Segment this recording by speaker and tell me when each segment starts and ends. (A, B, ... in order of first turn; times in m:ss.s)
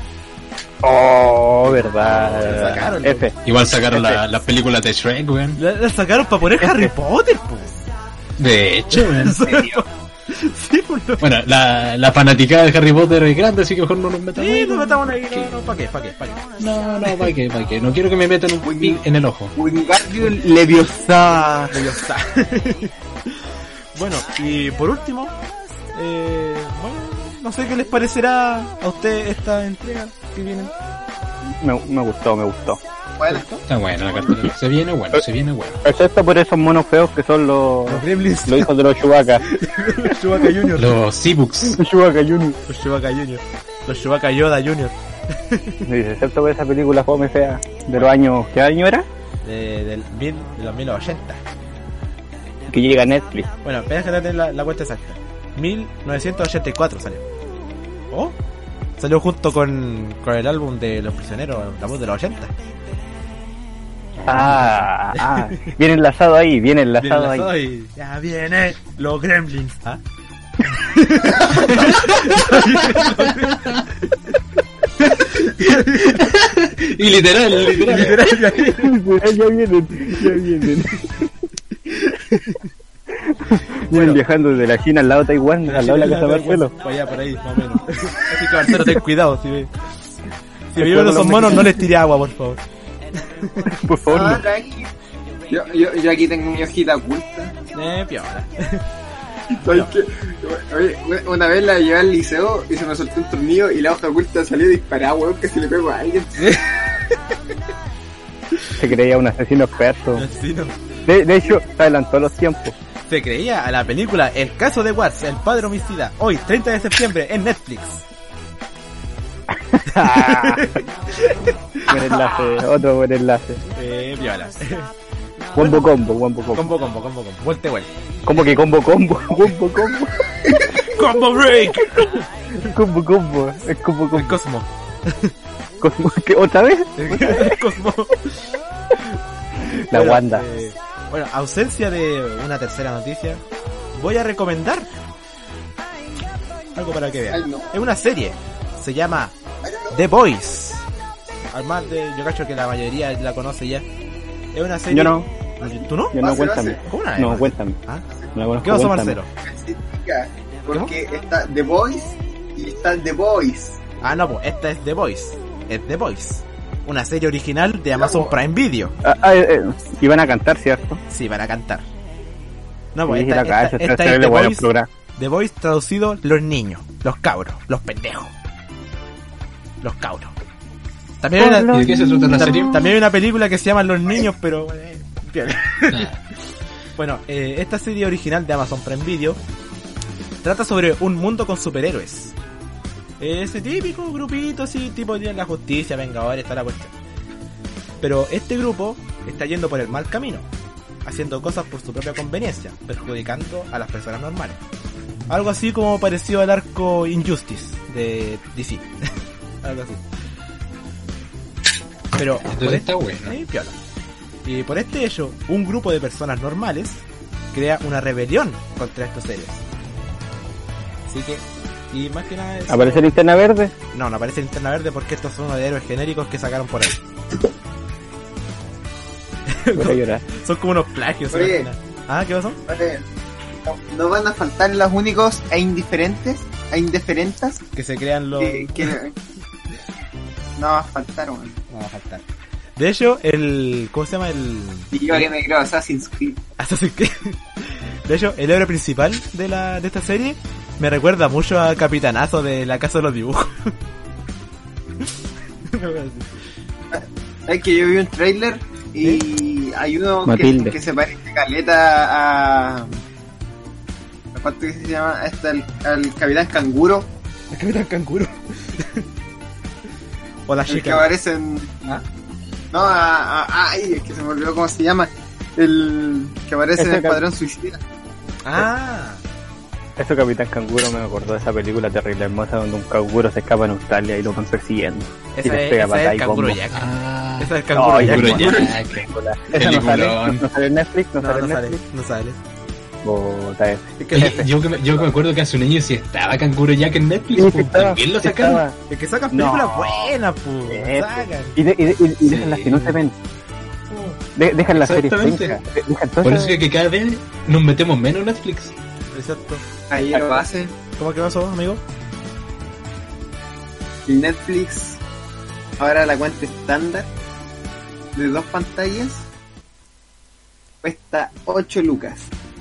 0:00.8-0:03.4 A
0:01.7-0:03.3 B
0:01.7-0:02.8 C
0:03.4-0:05.6 C
0:03.9-0:04.2 A
0:05.6-0:07.9 B
0:06.6-0:06.9 A
0:08.4-0:09.6 C
0:08.9-0:11.2 B
0:11.2-0:15.5 C
0:14.3-0:16.5 B
0:16.6-0:19.5 C
0:17.0-0:17.3 B
0:18.6-0:19.0 D
0:19.5-0:21.8 D
0:21.7-0:25.4 B
0:25.9-0:30.7 B
0:31.6-0:32.8 A
0:33.2-0:33.4 D
0:33.3-0:33.6 B
0:33.7-0:35.8 C
0:34.2-0:34.5 B
0:35.8-0:39.4 A
0:37.8-0:38.7 B
0:39.4-0:40.9 B
0:40.8-0:41.8 C
0:41.7-0:42.6 A
0:42.7-0:45.8 B
0:45.8-0:49.0 A
0:49.4-0:51.4 B
0:52.7-0:53.5 A
0:53.6-0:57.2 B
0:59.0-1:02.5 B
1:04.2-1:04.9 C
1:04.3-1:07.5 A
1:05.1-1:05.7 B
1:07.0-1:10.0 B
1:10.7-1:14.2 B
1:11.5-1:13.2 C
1:15.2-1:16.3 B
1:15.4-1:18.2 C
1:17.6-1:18.9 B
1:17.9-1:21.2 A
1:21.9-1:22.6 B
1:23.2-1:26.7 A
1:23.9-1:24.2 B
1:25.6-1:29.7 B
1:30.7-1:32.6 B
1:30.8-1:31.8 A
1:33.2-1:33.7 B
1:33.7-1:34.4 A
1:34.0-1:34.9 D
1:35.5-1:37.6 D
1:37.7-1:38.8 B
1:39.5-1:47.0 D
1:39.6-1:39.9 B
1:46.4-1:47.2 B
1:48.8-1:50.2 A
1:50.1-1:50.8 B
1:51.0-1:52.8 A
1:53.1-1:58.0 B
1:59.5-2:00.8 A
1:59.9-2:02.5 B
2:01.9-2:03.6 A
2:03.7-2:04.9 B
2:05.5-2:06.7 A
2:05.6-2:05.9 B
2:06.5-2:07.9 B
2:08.2-2:10.9 A
2:10.4-2:10.8 D
2:10.7-2:12.2 B
2:11.6-2:14.4 A
2:14.1-2:15.3 B
2:15.8-2:17.6 A
2:17.0-2:18.4 B
2:19.7-2:23.4 B
2:19.7-2:20.4 A
2:23.9-2:24.9 B
2:26.7-2:29.3 B
2:27.3-2:27.7 D
2:29.6-2:30.0 D
2:29.9-2:30.8 B
2:31.5-2:33.8 B
2:34.5-2:36.2 B
2:34.9-2:37.8 A
2:36.1-2:36.8 D
2:36.8-2:38.0 B
2:38.3-2:39.2 A
2:38.6-2:39.3 B
2:39.4-2:43.8 D
2:44.0-2:49.0 B
2:47.9-2:48.4 D
2:49.0-2:51.0 A
2:51.1-2:51.8 B
2:52.9-2:58.3 B
2:53.1-2:54.9 A
2:59.8-3:00.3 B
3:01.2-3:01.8 B
3:01.4-3:02.9 A
3:01.7-3:02.9 C
3:02.4-3:06.1 B
3:05.9-3:06.2 C
3:07.0-3:09.4 B
3:10.4-3:12.3 B
3:13.2-3:16.9 B
3:18.0-3:20.5 B
3:21.0-3:24.6 B
3:25.3-3:28.9 B
3:29.6-3:30.0 B
3:32.1-3:33.8 B
3:32.4-3:33.4 C
3:34.4-3:37.0 B
3:37.5-3:39.6 B
3:41.1-3:43.1 B
3:42.7-3:43.7 A
3:43.9-3:47.0 B
3:49.5-3:52.6 B
3:49.7-3:50.2 A
3:51.3-3:51.7 D
3:52.6-3:53.0 D
3:53.6-3:57.6 D
3:57.7-3:58.9 B
3:58.4-3:59.2 D
4:00.6-4:01.6 D
4:01.7-4:02.2 B
4:02.8-4:05.3 B
4:04.9-4:06.4 D
4:06.6-4:13.7 B
4:15.6-4:16.3 B
4:16.9-4:23.0 D
4:20.2-4:20.8 A
4:24.3-4:27.1 D
4:27.5-4:29.0 B
4:30.5-4:31.1 B
4:30.7-4:31.9 D
4:32.7-4:37.8 D
4:36.8-4:37.2 A
4:38.4-4:39.2 B
4:40.0-4:46.6 A
4:45.3-4:48.6 B
4:46.7-4:50.4 C
4:47.7-4:51.8 A
4:48.4-4:48.8 D
4:51.2-4:52.4 B
4:53.0-4:54.3 A
4:54.0-4:54.5 B
4:54.1-4:58.6 C
4:57.4-4:58.8 A
4:58.9-5:01.6 B
4:59.3-5:00.1 A
5:00.7-5:03.1 A
5:02.2-5:03.0 C
5:03.9-5:04.2 B
5:04.4-5:06.5 A
5:04.7-5:05.6 C
5:06.2-5:08.7 C
5:09.1-5:09.6 B
5:09.9-5:10.7 D
5:10.1-5:10.4 A
5:11.0-5:11.8 B
5:14.0-5:15.0 D
5:15.8-5:17.1 D
5:18.1-5:19.2 D
5:20.8-5:22.3 D